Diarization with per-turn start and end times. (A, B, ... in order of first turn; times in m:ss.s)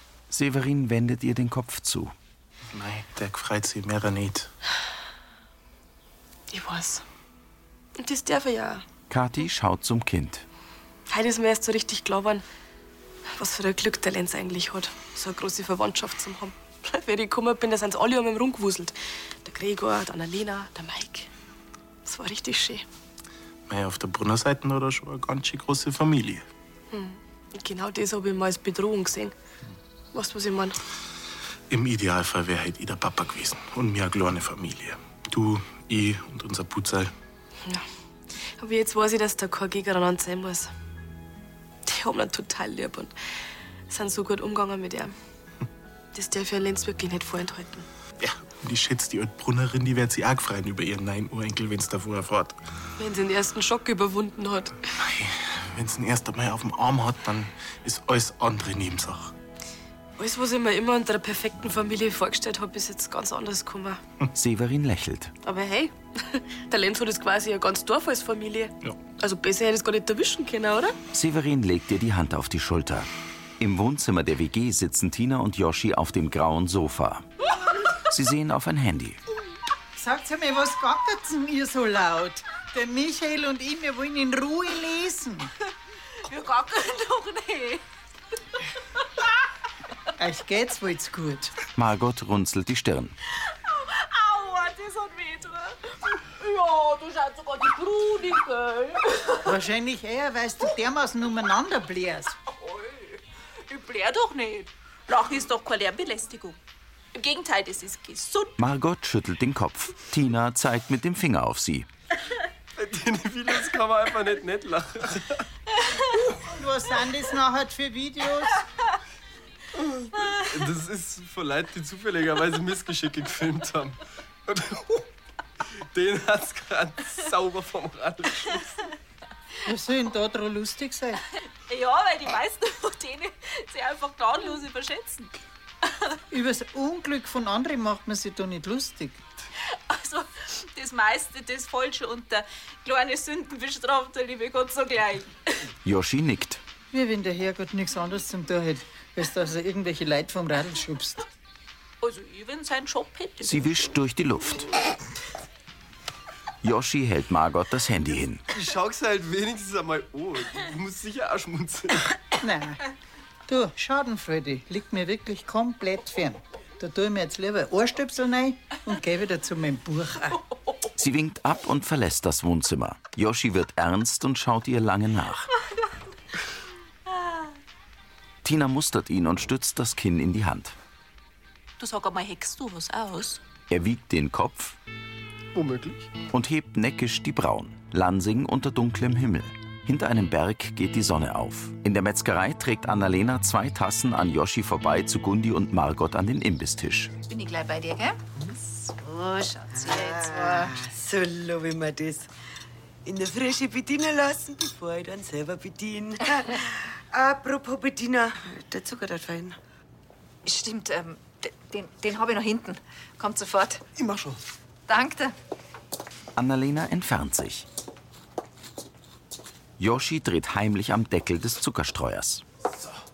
0:00.3-0:02.1 A
0:02.7-0:04.5 B
0:06.5-0:07.0 C
0:08.0-0:08.8 C
0:09.1-0:10.4 A
0:11.1-0:12.4 C
0:13.3-0:21.3 C
0:22.0-0:22.8 C
0:23.7-0:26.4 B
0:26.9-0:29.4 C
0:30.1-0:30.8 C
0:31.7-0:37.1 B
0:38.6-0:40.7 C
0:41.8-0:43.1 C
0:43.9-0:45.1 C
0:46.1-0:47.9 C
0:48.2-0:52.6 B
0:53.0-0:54.7 C
0:55.0-0:59.3 B
1:00.2-1:04.0 C
1:04.3-1:05.3 A
1:05.4-1:11.0 C
1:11.1-1:13.1 A
1:13.6-1:17.2 A
1:18.1-1:19.2 A
1:20.0-1:25.5 D
1:26.3-1:27.8 E
1:30.2-1:31.5 D
1:31.7-1:33.2 A
1:33.7-1:39.4 E
1:39.4-1:42.4 D
1:42.6-1:43.1 E
1:43.7-1:46.6 E
1:47.1-1:48.5 E
1:48.6-1:51.9 A
1:52.8-1:55.4 F
1:56.2-1:58.6 D
2:00.3-2:05.0 F
2:05.9-2:08.7 F
2:09.6-2:11.2 D
2:11.7-2:15.3 E
2:16.3-2:19.2 D
2:19.9-2:25.3 E
2:25.8-2:26.6 A
2:26.9-2:31.2 D
2:32.0-2:33.7 E
2:33.4-2:34.7 A
2:36.6-2:38.4 A
2:38.5-2:42.1 F
2:42.4-2:42.8 D
2:43.5-2:50.4 D
2:51.0-2:55.5 A
2:58.4-3:00.8 A
3:01.9-3:03.2 G
3:02.2-3:02.4 E
3:03.7-3:04.8 A
3:05.5-3:06.1 F
3:06.3-3:17.1 A
3:17.2-3:18.2 H
3:19.1-3:20.8 H
3:20.8-3:22.2 G
3:23.0-3:26.2 G
3:27.2-3:29.5 G
3:30.4-3:33.8 H
3:34.9-3:35.3 H
3:36.4-3:37.6 A
3:39.8-3:42.4 A